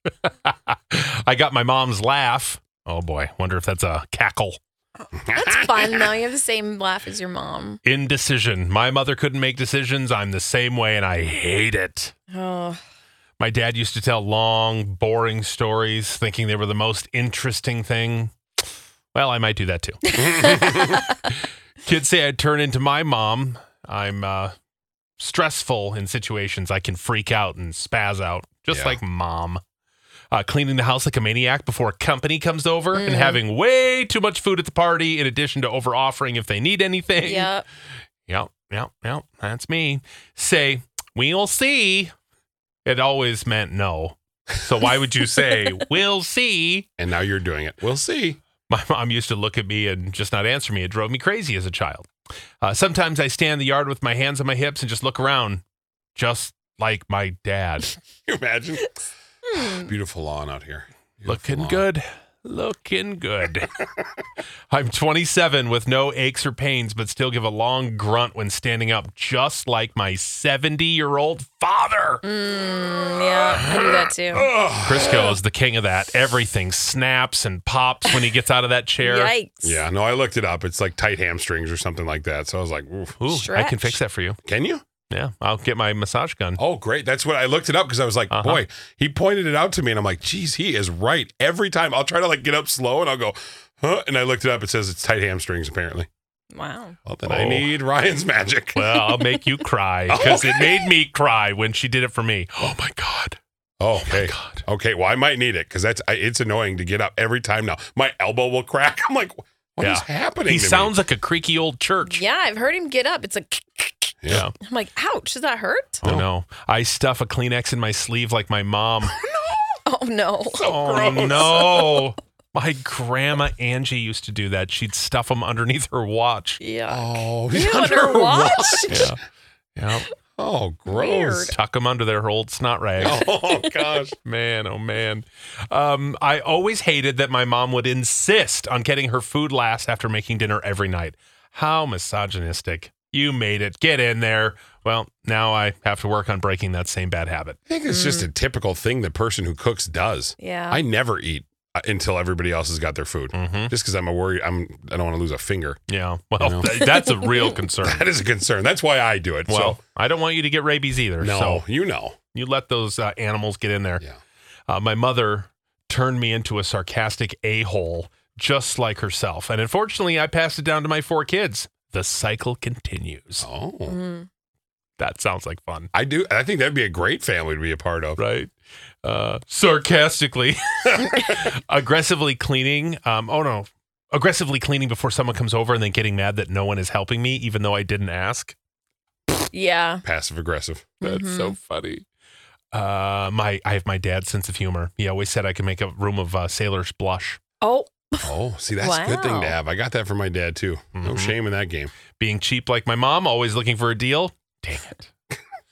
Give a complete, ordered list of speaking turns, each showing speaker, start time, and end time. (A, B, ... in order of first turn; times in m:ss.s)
0:00.2-0:04.6 A
0:05.3-0:07.8 B
0:05.3-0:06.1 C
0:07.8-0:12.1 A
0:12.3-0:12.8 B
0:13.4-0:18.3 A
0:19.1-0:20.3 A
0:20.1-0:21.2 B
0:20.2-0:21.0 C
0:21.3-0:24.5 A
0:25.2-0:29.6 A
0:28.7-0:29.0 C
0:30.3-0:37.6 A
0:32.9-0:33.4 B
0:37.2-0:37.6 B
0:38.3-0:42.1 A
0:42.8-0:46.9 A
0:47.0-0:48.4 C
0:48.7-0:52.1 A
0:52.6-0:55.6 A
0:56.2-0:57.9 A
0:58.2-0:58.9 C
0:59.5-0:59.9 B
0:59.6-1:01.9 C
1:01.3-1:03.8 A
1:04.7-1:12.2 A
1:12.2-1:14.5 B
1:13.7-1:15.3 C
1:14.8-1:19.3 A
1:19.0-1:19.9 B
1:19.6-1:23.2 C
1:23.2-1:24.4 A
1:23.3-1:24.0 B
1:24.4-1:24.8 C
1:25.1-1:26.6 A
1:26.6-1:36.1 C
1:28.3-1:28.6 A
1:36.5-1:37.0 B
1:37.0-1:38.9 C
1:37.2-1:37.7 A
1:38.7-1:43.4 A
1:39.1-1:39.4 B
1:40.1-1:40.9 C
1:43.8-1:51.0 C
1:44.0-1:44.6 A
1:49.8-1:52.2 A
1:52.0-1:56.0 B
1:54.2-1:54.5 C
1:54.3-1:54.6 A
1:56.0-1:59.2 A
1:59.8-2:00.7 B
2:00.6-2:06.6 A
2:00.7-2:01.8 C
2:06.6-2:09.1 B
2:06.9-2:09.1 C
2:08.9-2:09.2 A
2:09.8-2:10.1 A
2:10.4-2:11.5 C
2:10.9-2:11.6 B
2:11.5-2:13.2 A
2:13.0-2:14.2 C
2:13.4-2:13.8 B
2:14.2-2:27.6 A
2:27.7-2:35.8 C
2:27.9-2:28.3 B
2:30.4-2:30.8 B
2:33.3-2:33.7 A
2:35.9-2:38.1 A
2:36.4-2:36.9 C
2:37.8-2:39.8 C
2:39.5-2:41.6 A
2:41.2-2:42.2 C
2:42.3-2:44.0 A
2:44.7-2:53.5 A
2:53.4-2:54.0 C
2:53.9-2:54.3 B
2:55.0-2:55.9 A
2:55.9-2:58.2 C
2:58.2-3:08.6 A
3:09.5-3:10.0 B
3:10.0-3:11.0 C
3:11.0-3:11.6 B
3:11.0-3:12.0 A
3:12.7-3:17.4 A
3:17.6-3:19.6 B
3:18.2-3:22.0 C
3:21.0-3:21.3 A
3:22.1-3:25.1 A